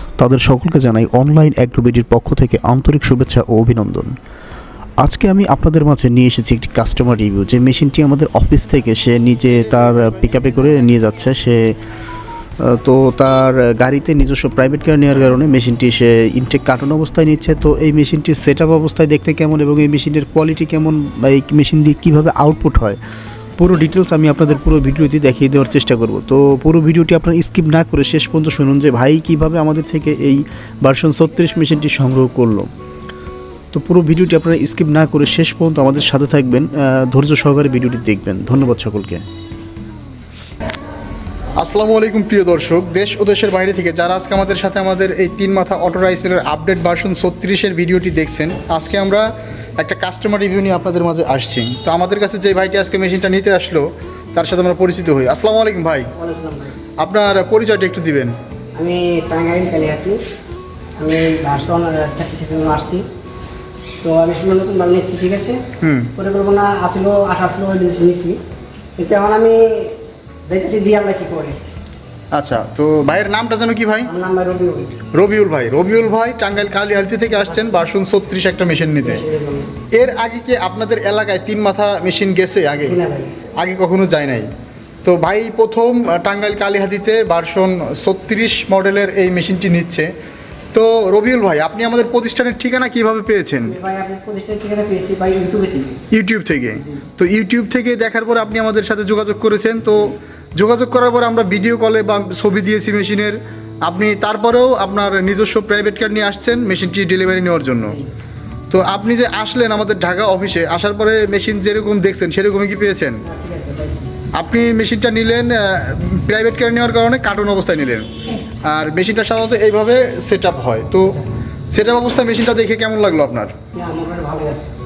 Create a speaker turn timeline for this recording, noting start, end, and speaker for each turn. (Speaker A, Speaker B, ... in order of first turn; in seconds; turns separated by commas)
Speaker A: 0.2-4.1, Speaker A: 5.0-11.8, Speaker A: 12.6-23.0, Speaker A: 23.6-32.7, Speaker A: 33.7-39.2, Speaker B: 41.6-49.3, Speaker B: 49.8-56.1, Speaker C: 56.1-56.8, Speaker B: 57.0-58.3, Speaker C: 58.8-60.2, Speaker C: 61.0-63.0, Speaker C: 64.0-65.6, Speaker B: 65.8-66.1, Speaker C: 66.1-68.4, Speaker C: 69.0-71.6, Speaker B: 72.3-74.1, Speaker C: 74.0-75.0, Speaker B: 75.1-79.2, Speaker C: 77.3-77.8, Speaker C: 79.0-79.7, Speaker B: 79.9-83.0, Speaker C: 82.8-83.3, Speaker B: 83.6-84.5, Speaker B: 85.0-90.1, Speaker B: 90.7-93.7, Speaker C: 93.6-96.0, Speaker B: 96.1-108.0, Speaker C: 96.7-97.0, Speaker B: 108.7-113.2, Speaker C: 113.2-114.1, Speaker B: 114.4-118.1, Speaker B: 118.6-121.2, Speaker B: 121.7-123.5, Speaker C: 123.7-124.7